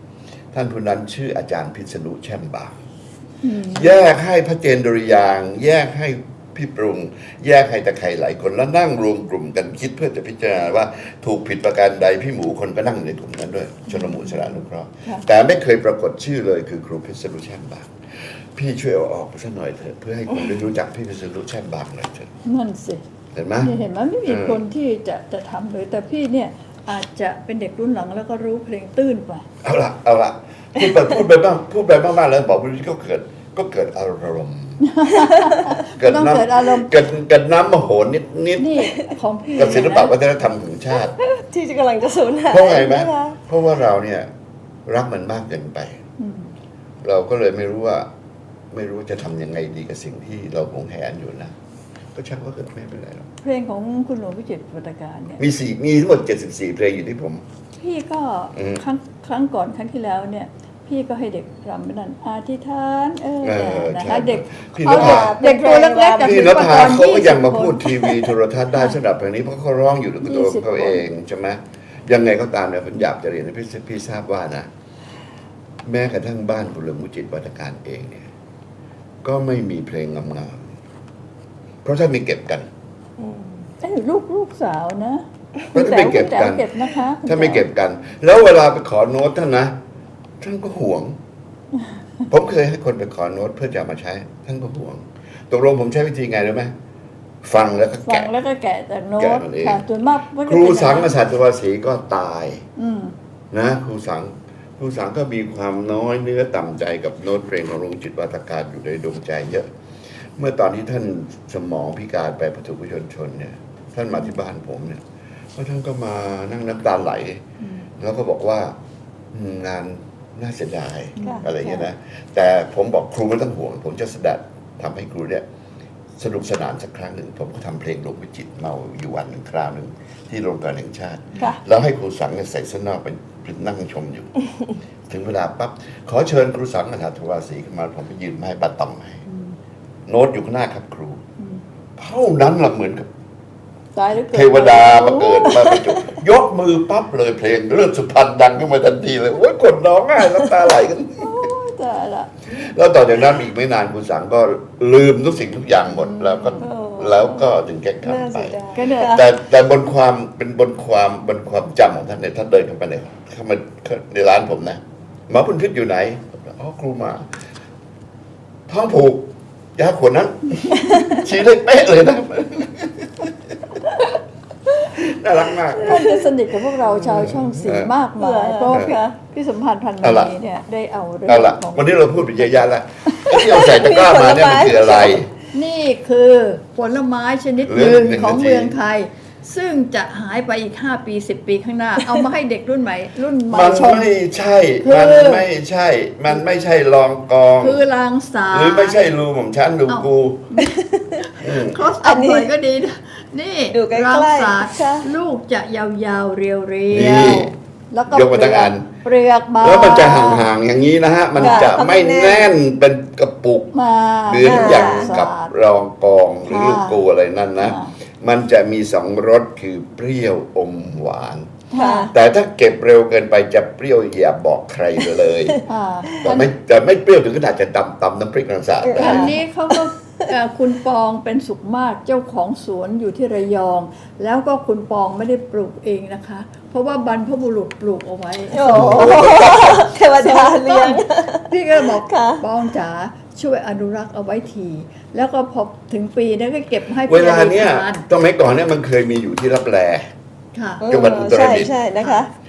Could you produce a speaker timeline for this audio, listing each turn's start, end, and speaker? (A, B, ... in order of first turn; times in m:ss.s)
0:00.5-0:02.8 A
0:03.4-0:04.0 B
0:03.7-0:22.3 A
0:13.9-0:15.3 B
0:22.4-0:23.0 B
0:23.3-0:23.8 A
0:23.6-0:29.4 B
0:24.3-0:24.6 A
0:29.6-0:34.8 A
0:34.8-0:36.9 B
0:35.6-0:38.9 A
0:38.6-0:40.2 B
0:39.6-0:41.1 A
0:41.0-0:43.4 C
0:42.5-0:44.3 A
0:44.9-0:46.0 A
0:46.2-0:46.5 B
0:47.0-0:48.1 A
0:48.7-0:51.5 A
0:52.2-0:53.3 A
0:53.4-0:55.4 B
0:55.4-0:57.4 A
0:57.8-1:08.2 B
0:58.6-0:58.8 A
1:03.4-1:05.4 A
1:04.8-1:07.0 C
1:06.2-1:14.7 A
1:10.2-1:11.0 B
1:15.9-1:18.3 A
1:19.2-1:20.7 A
1:21.8-1:22.7 A
1:23.2-1:23.5 C
1:23.8-1:27.7 B
1:25.7-1:26.7 A
1:27.2-1:29.7 A
1:30.4-1:31.2 A
1:32.3-1:36.7 A
1:37.4-1:38.3 A
1:38.0-1:41.1 B
1:39.2-1:39.8 A
1:40.4-1:42.6 A
1:42.8-1:43.2 B
1:43.5-1:49.7 A
1:50.4-1:55.0 A
1:55.6-1:57.4 A
1:57.6-1:57.9 B
1:58.0-1:58.8 A
1:59.3-2:05.4 A
2:01.2-2:01.9 B
2:06.2-2:14.3 A
2:15.1-2:19.2 A
2:19.3-2:19.6 B
2:20.1-2:21.2 A
2:22.0-2:23.1 A
2:24.0-2:26.1 B
2:24.3-2:31.4 A
2:31.2-2:32.3 B
2:32.5-2:47.2 A
2:35.9-2:36.7 B
2:36.6-2:39.3 C
2:38.8-2:39.3 B
2:48.7-2:53.3 A
2:54.9-2:56.1 A
2:55.7-3:03.4 B
2:55.8-2:56.2 C
2:56.8-2:57.9 A
2:58.2-2:59.2 C
2:58.7-2:59.0 A
3:00.0-3:00.4 A
3:01.3-3:05.3 A
3:03.4-3:05.2 C
3:05.5-3:14.1 B
3:07.6-3:08.8 A
3:13.5-3:17.8 A
3:14.8-3:15.4 B
3:17.6-3:19.0 B
3:18.5-3:20.5 A
3:19.9-3:30.5 B
3:20.6-3:21.2 C
3:21.4-3:21.8 A
3:22.0-3:22.5 C
3:23.7-3:25.1 C
3:26.9-3:27.6 A
3:28.1-3:28.9 A
3:29.6-3:33.7 A
3:31.4-3:32.5 C
3:31.4-3:31.7 B
3:33.7-3:35.5 B
3:34.3-3:41.6 A
3:34.4-3:35.1 C
3:36.5-3:37.0 B
3:37.6-3:37.9 B
3:41.7-3:42.1 B
3:41.8-3:42.1 C
3:42.1-3:45.6 A
3:45.6-3:46.5 B
3:46.2-3:49.4 A
3:48.8-3:49.8 C
3:49.0-3:59.4 B
3:58.5-4:02.4 C
3:58.7-3:59.8 A
4:00.1-4:08.0 B
4:07.0-4:10.1 A
4:10.5-4:10.8 B
4:10.8-4:12.3 C
4:10.9-4:11.8 A